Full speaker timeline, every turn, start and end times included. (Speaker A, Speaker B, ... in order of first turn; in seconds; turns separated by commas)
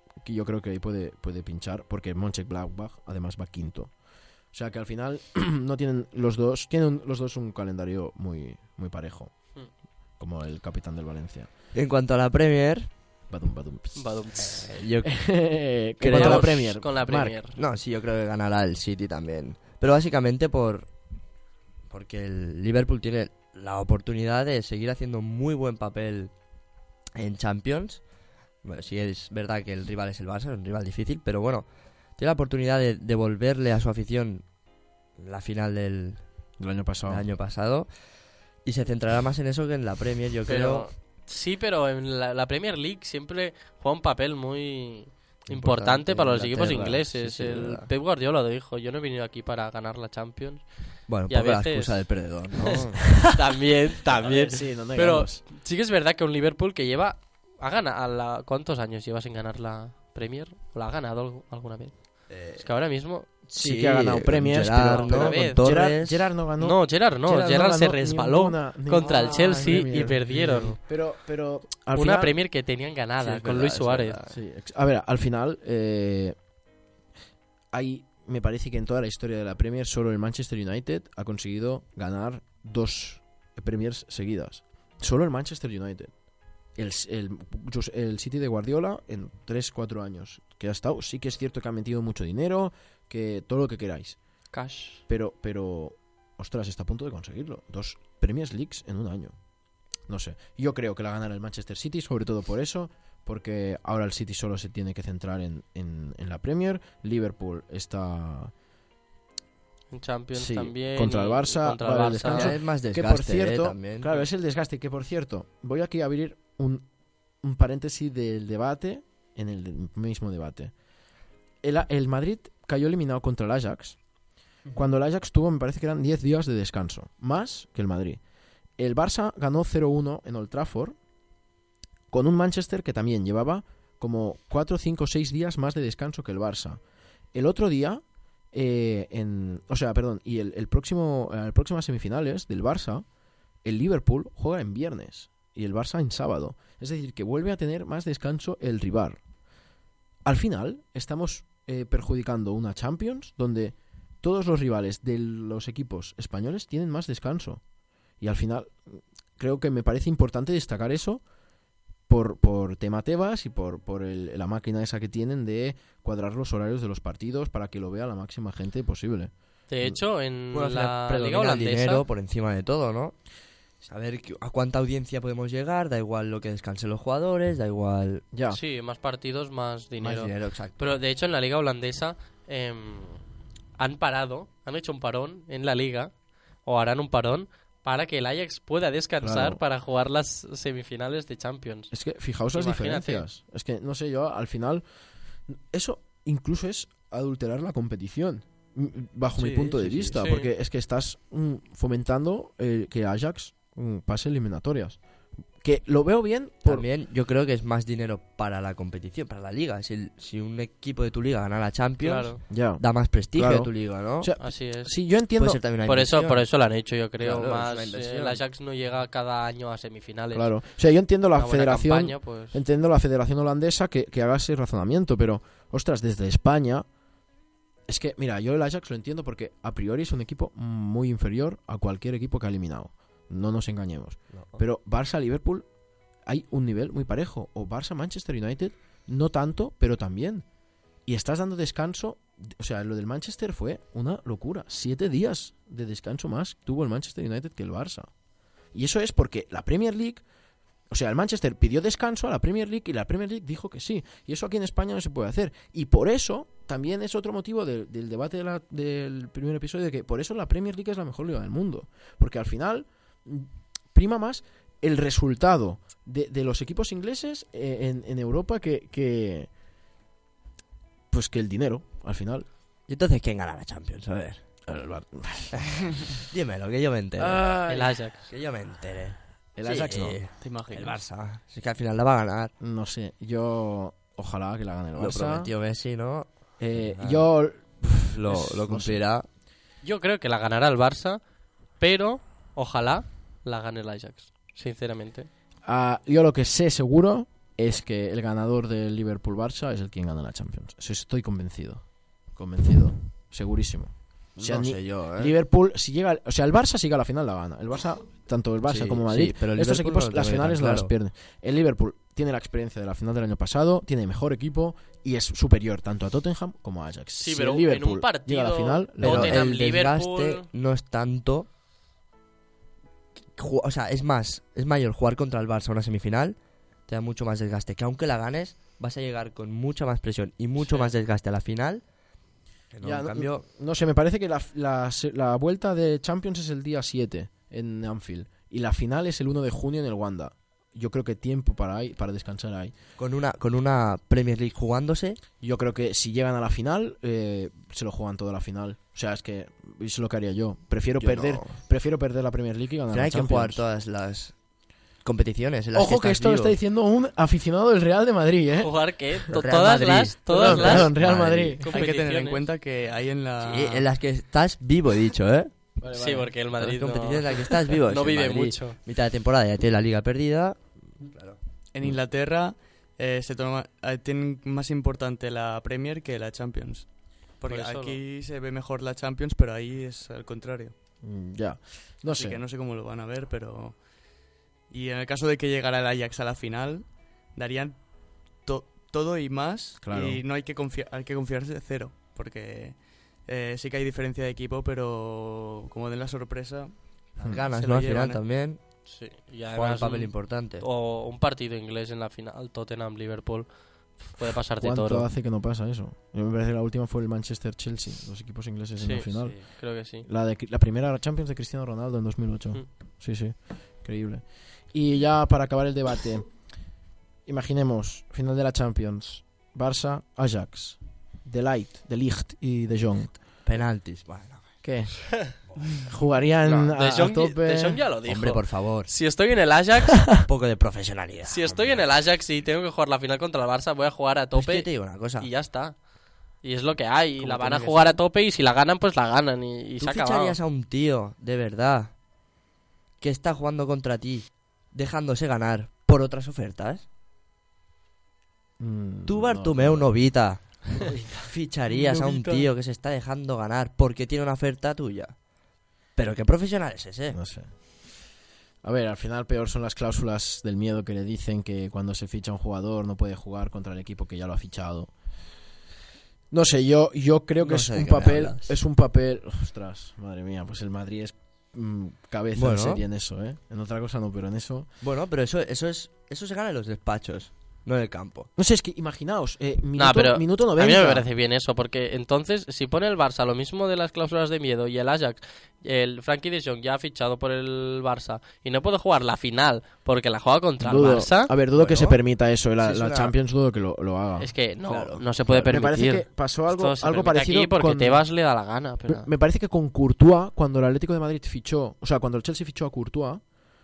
Speaker A: 0.2-3.9, Speaker A: 4.5-9.3, Speaker A: 10.2-11.5, Speaker B: 11.7-12.9, Speaker A: 13.3-14.2, Speaker C: 13.9-14.7, Speaker B: 14.4-15.3, Speaker A: 15.0-17.3, Speaker B: 16.0-16.7, Speaker C: 16.1-17.6, Speaker B: 17.6-20.9, Speaker B: 21.9-26.3, Speaker B: 27.1-28.0, Speaker B: 28.6-34.4, Speaker B: 35.2-36.2, Speaker A: 36.6-37.3, Speaker B: 37.0-37.9, Speaker B: 38.6-40.9, Speaker C: 40.5-50.6, Speaker B: 45.5-47.9, Speaker B: 51.1-53.1, Speaker C: 51.3-52.1, Speaker C: 52.6-63.3, Speaker A: 54.2-55.4, Speaker B: 62.3-62.6, Speaker A: 63.5-72.3, Speaker B: 63.5-66.3, Speaker C: 64.9-65.6, Speaker C: 66.6-70.8, Speaker B: 69.0-69.9, Speaker C: 71.9-74.2, Speaker B: 73.2-74.4, Speaker A: 74.3-76.3, Speaker A: 77.7-86.1, Speaker A: 86.8-94.2, Speaker C: 94.5-95.0, Speaker A: 95.1-99.3, Speaker A: 100.1-108.5, Speaker C: 109.9-112.5, Speaker A: 110.3-116.8, Speaker B: 112.1-114.1, Speaker A: 117.4-120.7, Speaker A: 121.6-124.0, Speaker A: 124.7-128.2, Speaker A: 128.8-131.0, Speaker A: 132.1-136.8, Speaker A: 137.3-143.1, Speaker A: 143.6-149.2, Speaker A: 150.2-157.6, Speaker A: 158.2-161.2, Speaker A: 162.1-170.0, Speaker C: 169.7-172.0, Speaker B: 170.5-173.1, Speaker B: 173.8-178.2, Speaker A: 178.3-178.6, Speaker C: 178.5-183.2, Speaker B: 180.0-180.8, Speaker C: 183.8-186.1, Speaker C: 186.6-191.9, Speaker A: 189.2-189.6, Speaker A: 191.9-194.8, Speaker C: 192.5-193.2, Speaker A: 195.5-205.0, Speaker B: 199.4-200.2, Speaker C: 200.2-200.5, Speaker A: 205.6-206.8, Speaker B: 206.6-214.3, Speaker C: 212.0-212.4, Speaker A: 212.5-215.6, Speaker C: 214.4-214.9, Speaker B: 215.4-216.4, Speaker C: 215.8-220.5, Speaker B: 217.2-218.4, Speaker A: 220.3-226.8, Speaker C: 221.3-222.6, Speaker A: 227.9-235.7, Speaker B: 234.3-234.6, Speaker A: 236.2-240.4, Speaker A: 241.1-248.1, Speaker A: 248.7-250.2, Speaker A: 250.9-269.5, Speaker A: 271.1-272.5, Speaker B: 272.9-274.4, Speaker A: 274.6-275.6, Speaker B: 276.3-277.4, Speaker A: 277.2-278.0, Speaker C: 277.7-278.2, Speaker B: 278.3-282.5, Speaker A: 279.6-280.2, Speaker D: 280.4-281.0, Speaker A: 282.6-285.5, Speaker B: 285.0-287.2, Speaker A: 286.6-289.0, Speaker B: 288.1-289.2, Speaker C: 289.8-291.2, Speaker C: 291.8-295.3, Speaker A: 295.6-319.4, Speaker B: 304.4-305.3, Speaker B: 308.6-310.9, Speaker C: 317.2-320.5, Speaker B: 319.0-321.5, Speaker B: 323.3-326.4, Speaker B: 326.9-331.8, Speaker B: 332.7-333.4, Speaker A: 332.8-342.7, Speaker B: 343.0-345.2, Speaker A: 345.4-353.6, Speaker B: 351.0-351.6, Speaker B: 352.9-354.3, Speaker B: 355.0-356.6, Speaker A: 355.7-358.7, Speaker C: 358.6-360.9, Speaker B: 359.3-361.6, Speaker A: 360.3-361.6, Speaker C: 361.6-362.4, Speaker D: 361.7-363.9, Speaker B: 363.4-365.5, Speaker A: 365.8-366.3, Speaker C: 365.9-368.8, Speaker B: 366.6-371.4, Speaker D: 371.7-380.7, Speaker C: 377.4-378.0, Speaker A: 381.0-382.4, Speaker D: 382.1-383.8, Speaker D: 384.7-398.2, Speaker A: 389.8-390.2, Speaker B: 397.2-398.6, Speaker C: 398.9-405.1, Speaker B: 399.5-400.6, Speaker A: 404.6-416.3, Speaker C: 408.8-410.1, Speaker A: 417.2-423.1, Speaker B: 423.4-424.5, Speaker A: 424.6-425.1, Speaker B: 425.5-425.8, Speaker A: 425.9-427.8, Speaker B: 426.4-426.7, Speaker C: 426.7-430.1, Speaker B: 428.1-428.9, Speaker B: 430.2-431.8, Speaker C: 431.2-435.8, Speaker B: 434.3-435.3, Speaker C: 436.4-440.4, Speaker D: 437.2-438.0, Speaker B: 439.8-441.9, Speaker B: 443.0-446.8, Speaker A: 448.6-449.9, Speaker B: 449.1-455.1, Speaker A: 450.7-452.5, Speaker B: 455.9-457.2, Speaker A: 457.1-457.5, Speaker A: 458.6-464.9, Speaker A: 466.3-474.7, Speaker B: 467.4-468.5, Speaker B: 472.4-472.8, Speaker B: 474.8-478.3, Speaker A: 478.4-481.1, Speaker C: 479.8-491.4, Speaker A: 490.6-494.3, Speaker B: 491.6-492.0, Speaker B: 492.6-493.1, Speaker C: 494.2-499.1, Speaker B: 494.6-495.0, Speaker A: 495.3-498.0, Speaker A: 498.9-503.2